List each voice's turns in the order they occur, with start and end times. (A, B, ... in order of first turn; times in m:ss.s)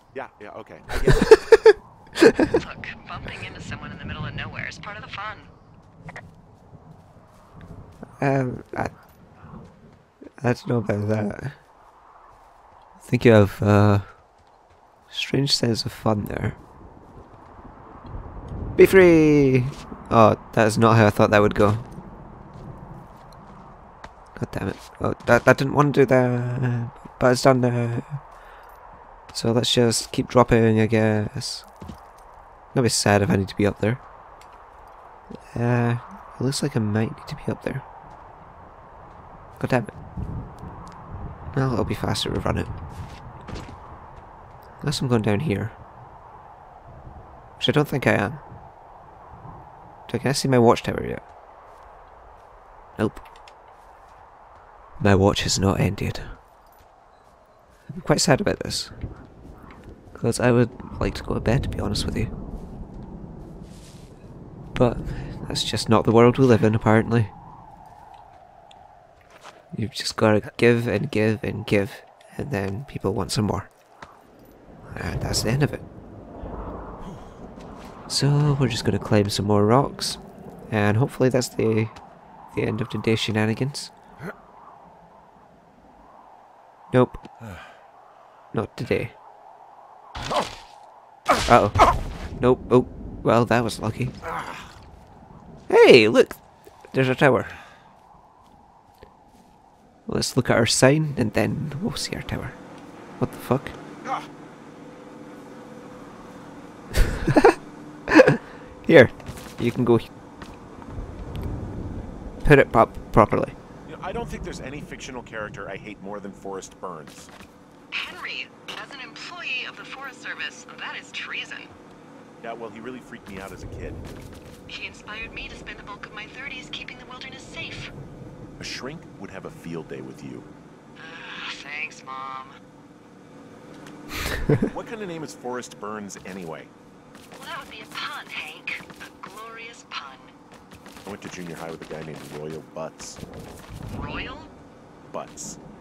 0:00.1-0:01.4 A
0:02.5-0:05.5 B
0:08.2-0:08.9 C
0:10.4-0:11.6 C
0:13.0-0:14.1 C
0:15.1-0:16.6 C
0:18.8-0:21.9 C
0:24.4-0:28.2 C
0:29.3-0:31.7 C
0:32.7-0:34.0 C
0:35.5-0:37.8 C
0:39.6-0:39.9 C
0:41.5-0:42.7 C
0:44.8-0:45.8 C
0:47.6-0:48.4 C
0:50.1-0:51.2 C
0:53.0-0:53.2 C
0:55.0-0:56.4 C
0:57.9-0:58.9 C
1:00.1-1:02.3 C
1:04.7-1:07.3 C
1:09.7-1:13.7 C
1:14.9-1:15.8 C
1:18.1-1:21.9 C
1:22.5-1:23.9 C
1:26.9-1:27.2 C
1:28.5-1:29.1 C
1:31.4-1:31.9 C
1:32.4-1:34.1 C
1:35.7-1:37.5 C
1:40.1-1:42.6 C
1:43.2-1:43.8 C
1:44.0-1:44.3 A
1:46.9-1:50.1 C
1:52.4-1:53.5 C
1:53.8-1:57.3 A
1:57.9-2:01.7 B
2:02.4-2:04.0 A
2:04.7-2:07.9 B
2:08.6-2:10.5 A
2:11.0-2:12.6 B
2:14.6-2:16.7 A
2:17.3-2:20.3 B
2:21.0-2:23.2 A
2:23.9-2:24.5 B
2:25.1-2:25.6 A